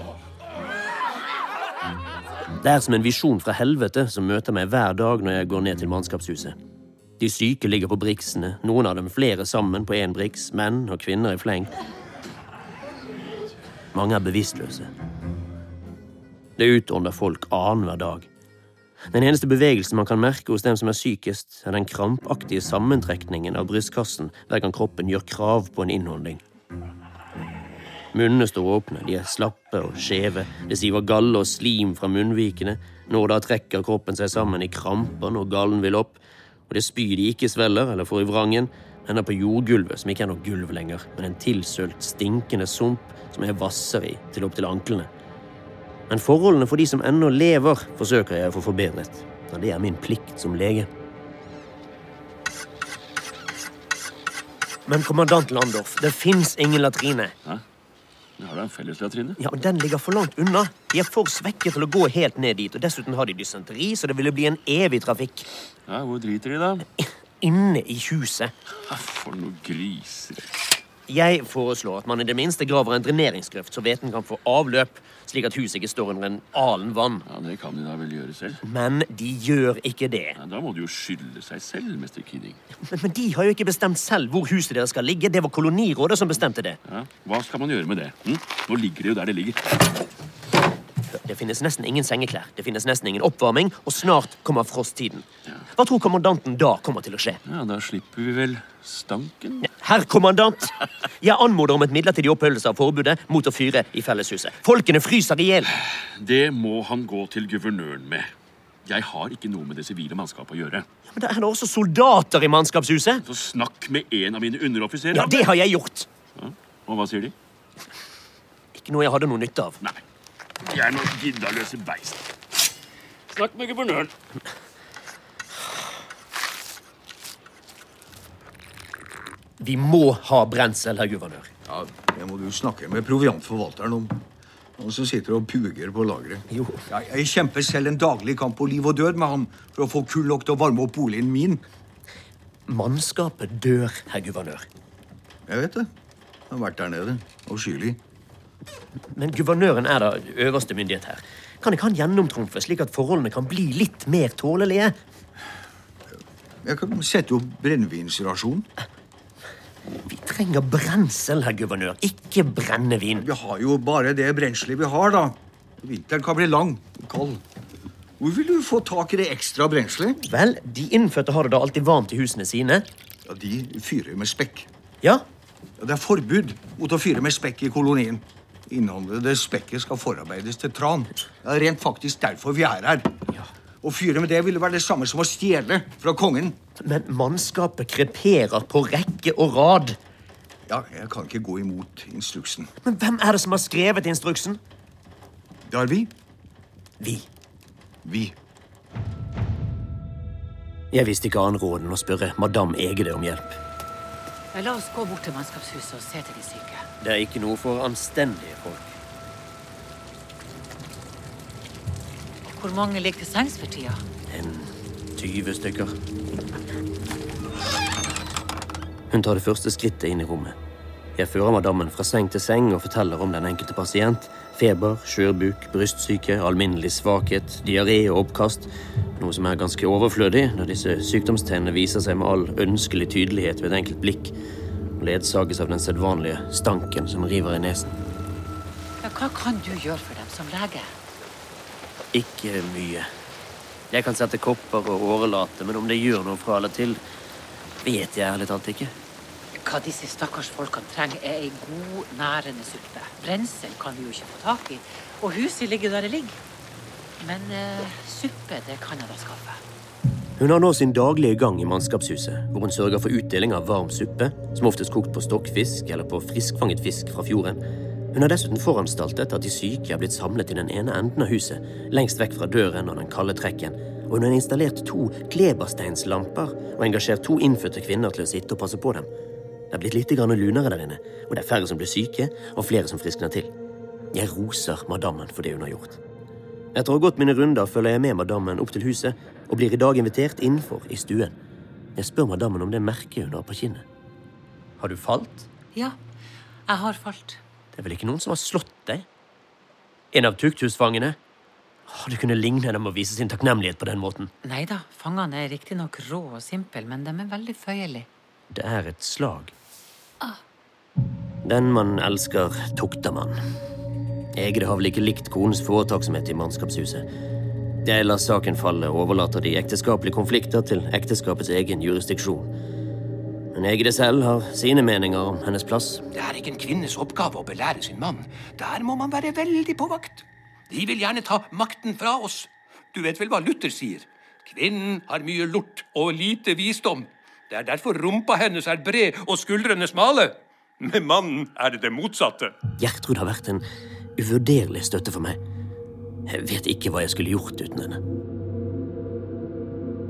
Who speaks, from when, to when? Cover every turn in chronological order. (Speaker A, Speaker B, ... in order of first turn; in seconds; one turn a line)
Speaker A: 2.6-6.6
Speaker A: 7.2-11.8
Speaker A: 13.9-14.9
Speaker A: 16.6-18.3
Speaker A: 19.1-26.4
Speaker A: 28.1-45.1
Speaker A: 46.1-50.9
Speaker A: 54.9-57.3
Speaker B: 58.4-59.4
Speaker A: 59.4-65.5
Speaker B: 65.9-66.8
Speaker A: 67.0-68.5
Speaker B: 68.9-70.5
Speaker A: 71.1-77.2
Speaker B: 77.3-78.6
Speaker A: 78.6-80.4
Speaker B: 80.4-82.6
Speaker A: 82.9-86.8
Speaker B: 86.9-89.8
Speaker A: 91.1-97.4
Speaker B: 97.5-99.7
Speaker A: 99.6-105.7
Speaker B: 105.9-108.3
Speaker B: 108.8-110.8
Speaker A: 111.1-113.2
Speaker B: 113.3-115.5
Speaker A: 115.1-116.1
Speaker B: 116.4-117.3
Speaker A: 118.8-119.8
Speaker B: 120.7-122.3
Speaker B: 123.3-124.1
Speaker A: 129.6-131.5
Speaker C: 131.7-134.2
Speaker C: 134.8-141.6
Speaker A: 136.5-136.8
Speaker A: 142.7-144.7
Speaker C: 145.5-145.9
Speaker C: 146.5-148.0
Speaker A: 149.1-154.9
Speaker C: 156.6-158.7
Speaker A: 160.1-163.2
Speaker C: 163.2-167.4
Speaker C: 168.2-170.2
Speaker A: 170.3-172.9
Speaker C: 173.3-174.7
Speaker C: 175.8-183.1
Speaker C: 183.8-186.6
Speaker A: 186.8-190.0
Speaker C: 190.7-192.7
Speaker A: 192.8-194.6
Speaker C: 195.7-196.1
Speaker A: 197.0-197.3
Speaker C: 198.0-198.3
Speaker A: 200.9-203.6
Speaker D: 204.5-206.8
Speaker A: 207.0-208.9
Speaker D: 212.4-214.0
Speaker A: 214.3-215.9
Speaker A: 219.1-220.6
Speaker A: 221.2-234.3
Speaker A: 235.0-237.9
Speaker D: 239.0-240.9
Speaker A: 242.1-243.1
Speaker A: 243.9-247.0
Speaker A: 247.8-248.9
Speaker D: 249.6-256.4
Speaker D: 257.2-259.6
Speaker A: 260.4-267.6
Speaker A: 268.1-279.1
Speaker A: 279.7-283.5
Speaker A: 284.1-286.0
Speaker A: 286.7-291.3
Speaker A: 292.0-293.9
Speaker A: 294.8-295.5
Speaker D: 296.7-297.4
Speaker A: 297.7-299.1
Speaker A: 300.1-301.2
Speaker A: 301.9-304.3
Speaker D: 304.4-308.1
Speaker A: 308.5-309.5
Speaker A: 311.4-313.4
Speaker A: 314.4-317.1
Speaker A: 317.9-322.5
Speaker A: 323.5-326.0
Speaker E: 326.1-342.6
Speaker A: 342.8-343.6
Speaker A: 344.2-345.4
Speaker A: 346.3-348.0